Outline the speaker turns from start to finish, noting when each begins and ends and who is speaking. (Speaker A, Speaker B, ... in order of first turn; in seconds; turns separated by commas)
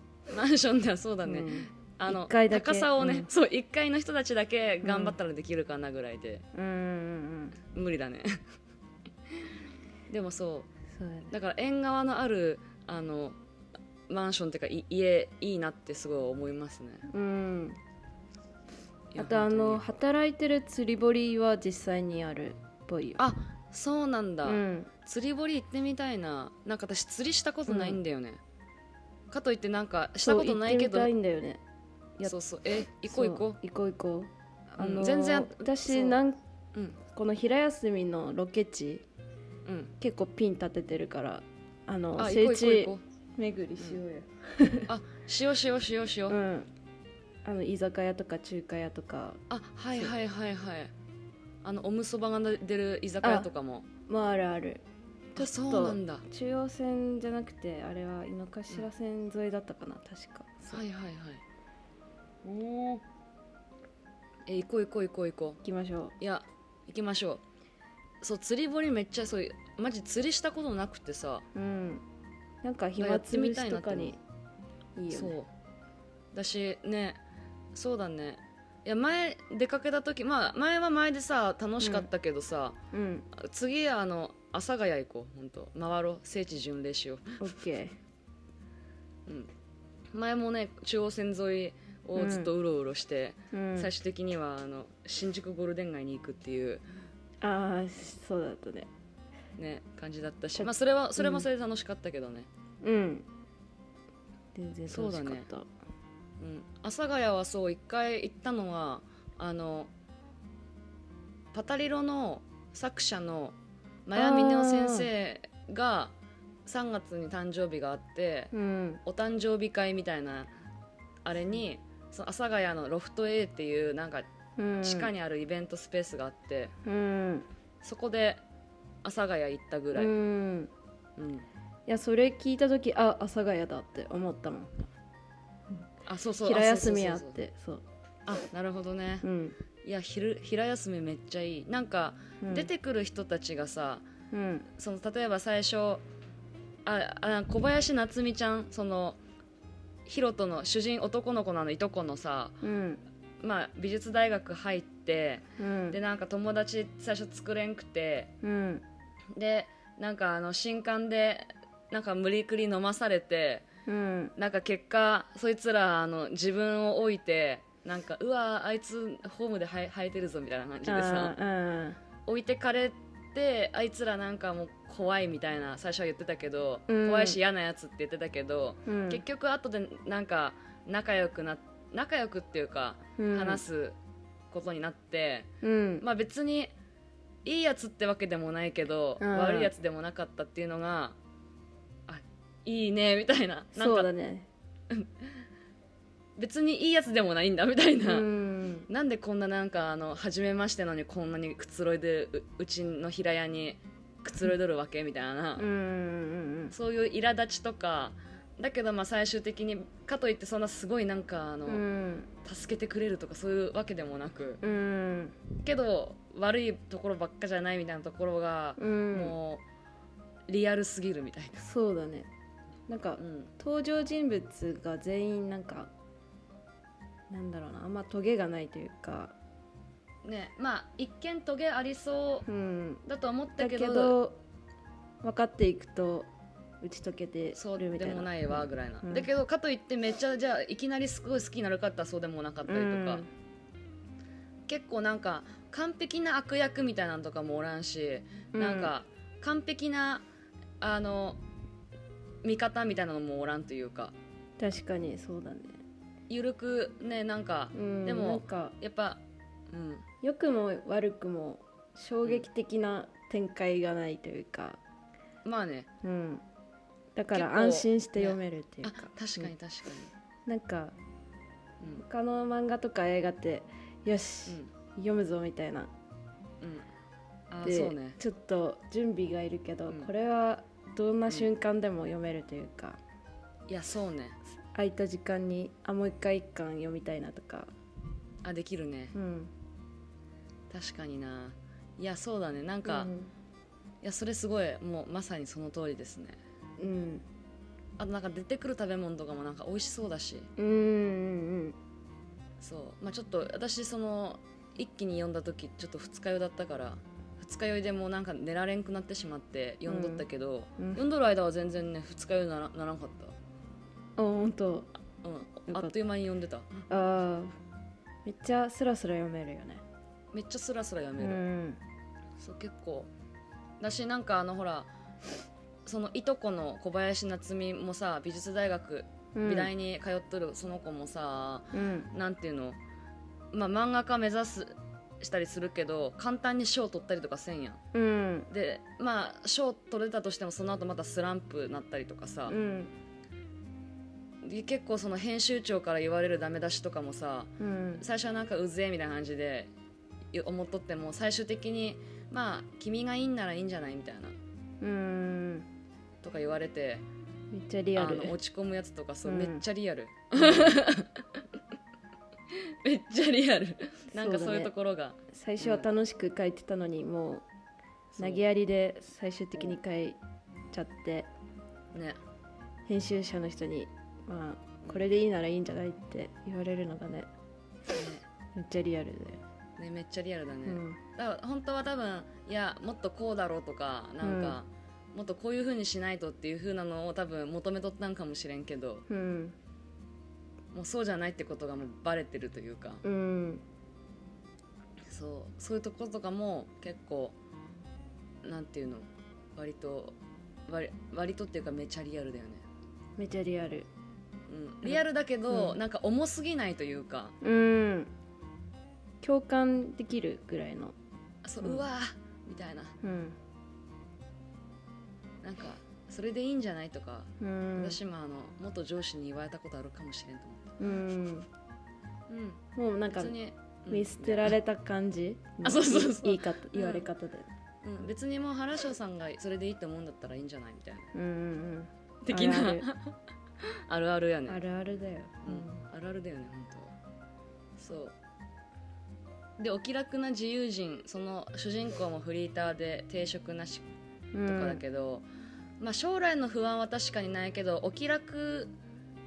Speaker A: 0.3-6.4, Speaker B: 1.2-3.3, Speaker B: 4.8-5.2, Speaker B: 6.5-7.5, Speaker A: 7.7-8.4, Speaker A: 10.1-10.7, Speaker B: 10.9-11.3, Speaker A: 11.3-13.4, Speaker A: 14.1-17.1, Speaker B: 17.1-17.8, Speaker A: 19.1-19.8, Speaker B: 19.1-23.2, Speaker A: 23.2-28.4, Speaker B: 24.4-24.9, Speaker B: 27.7-28.0, Speaker A: 29.3-31.1, Speaker B: 30.2-31.6, Speaker A: 32.2-33.6, Speaker B: 33.0-36.4, Speaker A: 34.8-36.2, Speaker B: 37.0-39.0, Speaker A: 39.6-39.9, Speaker B: 40.0-44.9, Speaker A: 42.1-43.0, Speaker A: 44.9-46.4, Speaker B: 46.3-46.7, Speaker B: 47.4-49.4, Speaker A: 49.5-50.9, Speaker A: 51.6-53.9, Speaker B: 53.2-53.5, Speaker B: 54.1-60.8, Speaker A: 55.4-56.2, Speaker A: 60.7-61.4, Speaker A: 62.4-63.0, Speaker A: 64.5-65.6, Speaker B: 65.6-66.2, Speaker A: 66.2-67.4, Speaker A: 68.2-71.5, Speaker B: 71.5-72.0, Speaker B: 72.6-74.2, Speaker A: 73.0-74.2, Speaker B: 75.0-75.4, Speaker A: 75.1-75.5, Speaker A: 76.3-77.2, Speaker A: 77.7-82.8, Speaker B: 81.8-82.1, Speaker B: 82.9-83.3, Speaker A: 83.3-87.4, Speaker B: 87.4-88.0, Speaker A: 90.1-96.8, Speaker B: 92.2-92.5, Speaker B: 93.5-93.9, Speaker B: 97.4-98.9, Speaker A: 99.6-102.5, Speaker B: 100.6-101.5, Speaker B: 102.8-103.3, Speaker B: 104.5-105.7, Speaker A: 104.9-105.5, Speaker A: 106.4-109.9, Speaker A: 111.5-116.1, Speaker B: 114.2-115.1, Speaker A: 116.7-118.5, Speaker B: 118.5-119.0, Speaker A: 119.0-120.5, Speaker A: 121.2-124.2, Speaker B: 124.6-125.1, Speaker A: 124.8-126.7, Speaker B: 126.8-127.5, Speaker A: 127.8-128.4, Speaker A: 129.0-130.1, Speaker B: 129.9-130.7, Speaker A: 131.2-131.4, Speaker B: 131.9-134.9, Speaker A: 136.1-137.4, Speaker B: 136.4-137.8, Speaker A: 138.2-139.3, Speaker B: 139.2-139.6, Speaker A: 139.8-144.0, Speaker B: 142.4-142.7, Speaker B: 144.3-144.7, Speaker A: 144.8-146.0, Speaker A: 146.8-149.2, Speaker A: 150.1-152.6, Speaker B: 152.6-153.0, Speaker A: 153.4-158.3, Speaker B: 155.6-156.0, Speaker B: 158.4-158.8, Speaker A: 159.3-163.6, Speaker B: 163.8-164.3, Speaker A: 164.4-171.3, Speaker B: 170.8-172.0, Speaker A: 172.2-183.9, Speaker B: 176.9-177.4, Speaker B: 178.8-179.2, Speaker B: 183.2-183.6, Speaker A: 184.5-185.5, Speaker B: 185.6-186.0, Speaker A: 186.0-186.7, Speaker A: 187.4-191.2, Speaker B: 189.2-189.7, Speaker A: 192.1-194.1, Speaker B: 193.8-194.5, Speaker A: 194.9-195.2, Speaker A: 196.4-198.3, Speaker B: 198.0-198.9, Speaker A: 198.9-205.7, Speaker B: 205.6-206.7, Speaker A: 206.7-211.8, Speaker B: 211.7-212.3, Speaker A: 212.4-214.6, Speaker B: 214.6-215.4, Speaker A: 215.6-219.6, Speaker B: 218.8-219.4, Speaker A: 220.5-221.6, Speaker B: 221.6-222.3, Speaker B: 222.9-225.9, Speaker A: 223.2-223.5, Speaker B: 227.3-229.3, Speaker A: 230.2-232.5, Speaker B: 232.4-233.0, Speaker A: 233.1-234.2, Speaker B: 233.6-234.4, Speaker B: 235.2-236.3, Speaker B: 236.8-239.3, Speaker A: 237.5-243.2, Speaker B: 242.7-243.3, Speaker A: 244.7-250.2, Speaker B: 248.5-248.9, Speaker A: 250.8-251.4, Speaker A: 252.4-254.1, Speaker B: 254.6-255.8, Speaker A: 256.3-260.0, Speaker B: 257.7-258.8, Speaker B: 260.2-264.8, Speaker A: 265.4-265.9, Speaker B: 266.0-266.4, Speaker B: 267.1-269.5, Speaker A: 267.3-270.1, Speaker B: 270.4-271.0, Speaker B: 272.0-275.9, Speaker A: 274.5-274.7, Speaker A: 276.6-276.9, Speaker A: 277.5-278.2, Speaker B: 277.6-283.0, Speaker A: 283.7-284.4, Speaker B: 284.7-287.7, Speaker A: 288.4-289.1, Speaker B: 289.1-289.5, Speaker A: 290.7-293.1, Speaker B: 292.8-293.3, Speaker A: 294.0-296.4, Speaker B: 296.8-297.2, Speaker A: 298.0-300.5, Speaker B: 300.6-301.8, Speaker A: 302.6-313.4, Speaker B: 309.9-310.2, Speaker B: 314.2-314.9, Speaker A: 315.2-316.8, Speaker B: 315.7-315.9, Speaker B: 316.9-317.5, Speaker B: 318.2-319.8, Speaker A: 320.3-321.4, Speaker B: 321.2-321.8, Speaker A: 322.4-323.1, Speaker A: 323.8-324.9, Speaker A: 325.9-332.8, Speaker B: 329.3-329.7, Speaker B: 331.7-332.1, Speaker A: 333.5-337.8, Speaker B: 337.9-338.5, Speaker A: 338.5-342.6, Speaker B: 342.5-342.9, Speaker A: 344.4-349.7, Speaker B: 347.6-348.0, Speaker A: 350.3-354.4, Speaker B: 354.8-355.7, Speaker A: 356.2-357.0, Speaker B: 357.5-358.4, Speaker A: 357.9-361.4, Speaker B: 359.2-359.6, Speaker B: 360.4-360.8, Speaker A: 362.5-365.9, Speaker B: 364.1-364.7, Speaker B: 365.3-367.4, Speaker A: 368.1-368.4, Speaker B: 368.2-370.2, Speaker B: 370.7-371.3, Speaker A: 371.9-372.2, Speaker B: 372.9-377.3, Speaker A: 377.9-378.2, Speaker B: 378.5-379.4, Speaker A: 379.8-389.0, Speaker B: 380.6-381.0, Speaker B: 384.2-384.6, Speaker B: 389.1-389.6, Speaker A: 390.7-393.0, Speaker B: 393.0-393.6, Speaker A: 395.1-397.4, Speaker A: 398.4-400.2, Speaker A: 400.7-402.6, Speaker B: 403.2-403.9, Speaker A: 404.5-407.3, Speaker B: 404.9-405.8, Speaker B: 407.4-408.1, Speaker B: 409.2-411.0, Speaker A: 411.4-412.9, Speaker B: 413.0-413.4, Speaker A: 415.4-420.8, Speaker B: 417.4-418.0, Speaker B: 420.8-421.5, Speaker A: 422.3-422.6, Speaker B: 422.7-423.4, Speaker A: 423.1-424.6, Speaker B: 423.9-427.5, Speaker A: 425.6-427.0, Speaker A: 427.8-431.1, Speaker B: 431.1-432.9, Speaker A: 432.2-434.6, Speaker B: 434.5-435.8, Speaker A: 435.4-436.9, Speaker A: 437.8-438.1, Speaker A: 439.6-443.9, Speaker B: 444.3-444.8, Speaker A: 444.5-445.2, Speaker A: 445.8-448.7